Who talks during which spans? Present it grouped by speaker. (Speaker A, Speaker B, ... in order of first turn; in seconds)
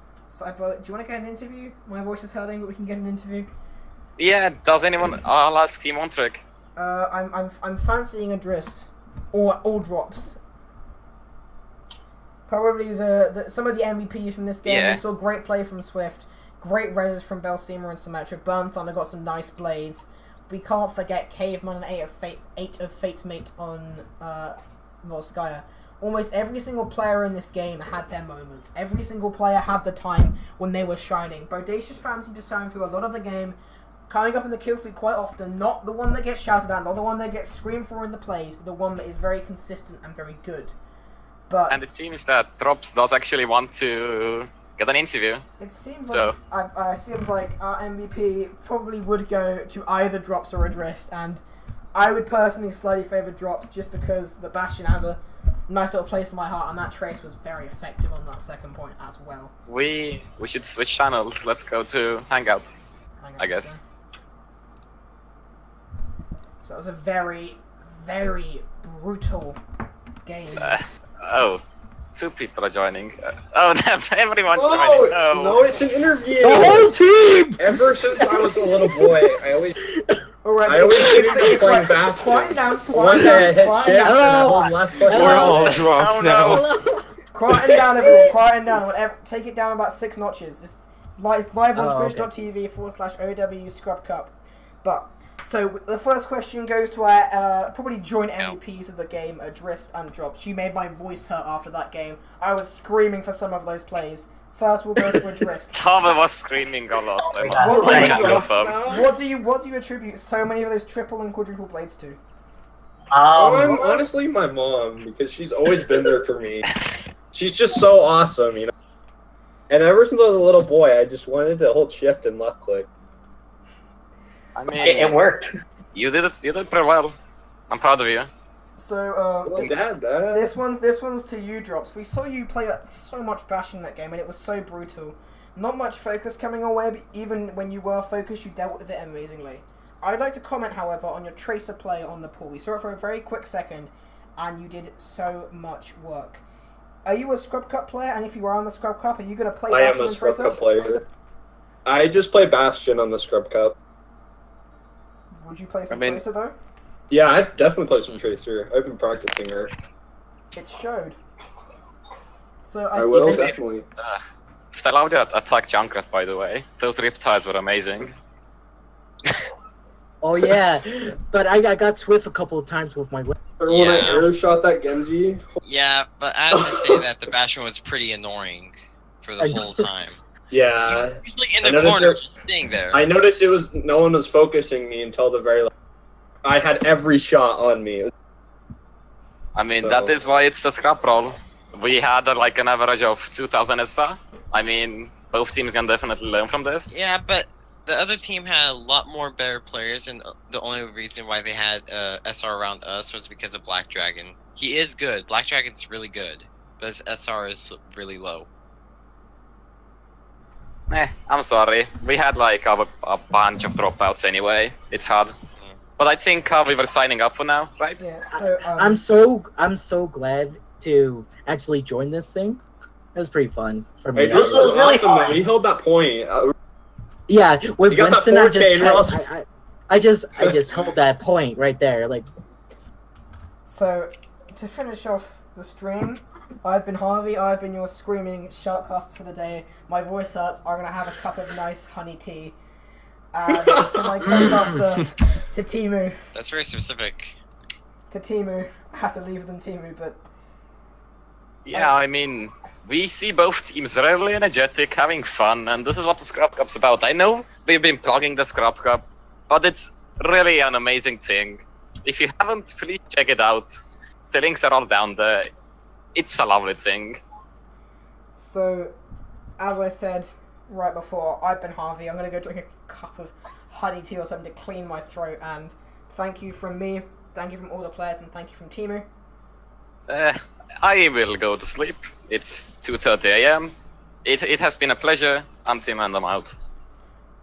Speaker A: 0.3-3.5, 6.8-10.4, 12.5-33.5, 34.1-40.7, 41.5-41.8, 45.6-51.4, 51.9-59.5, 63.2-63.8, 66.6-69.6, 70.2-70.8, 80.4-84.7, 87.3-94.3, 94.8-105.9, 107.6-112.2, 113.7-114.0, 128.8-146.4, 147.0-151.0, 155.4-156.5, 160.5-161.2, 162.6-163.5, 218.0-219.0, 233.7-242.6, 243.3-246.2, 248.1-250.2, 268.3-268.9, 269.6-279.1
Speaker B: 4.2-6.4, 14.6-15.0, 41.7-45.4, 46.1-46.4, 59.7-62.7, 63.4-63.8, 70.6-71.6, 72.1-75.7, 85.5-86.7, 105.7-108.9, 124.5-125.3, 125.9-127.1, 127.7-128.3, 163.2-164.2, 164.7-168.1, 189.5-197.0, 210.9-215.3, 216.0-218.0, 251.6-265.5, 266.1-267.2, 280.1-283.7, 284.2-286.6
Speaker C: 74.5-76.9, 77.6-79.7, 80.7-85.9, 107.5-109.1, 113.2-116.7, 117.3-118.7, 119.7-122.9, 129.4-130.5, 149.7-151.0, 151.8-153.7, 157.1-159.7, 162.9-163.8, 173.6-175.5, 176.5-177.1, 180.5-182.2, 182.9-185.7, 186.4-188.1, 189.8-190.2, 224.1-226.5, 227.9-229.2, 230.4-230.9, 243.5-244.8
Speaker D: 76.4-79.2, 81.0-81.4, 84.0-88.3, 91.7-92.3, 170.2-173.4, 179.4-179.8, 218.7-222.6, 223.1-225.0, 227.3-232.3
Speaker E: 107.4-108.1, 113.2-113.7, 124.9-125.4, 224.5-225.3
Speaker F: 173.7-174.3, 175.6-180.2, 180.8-183.0, 196.9-208.5, 246.3-247.3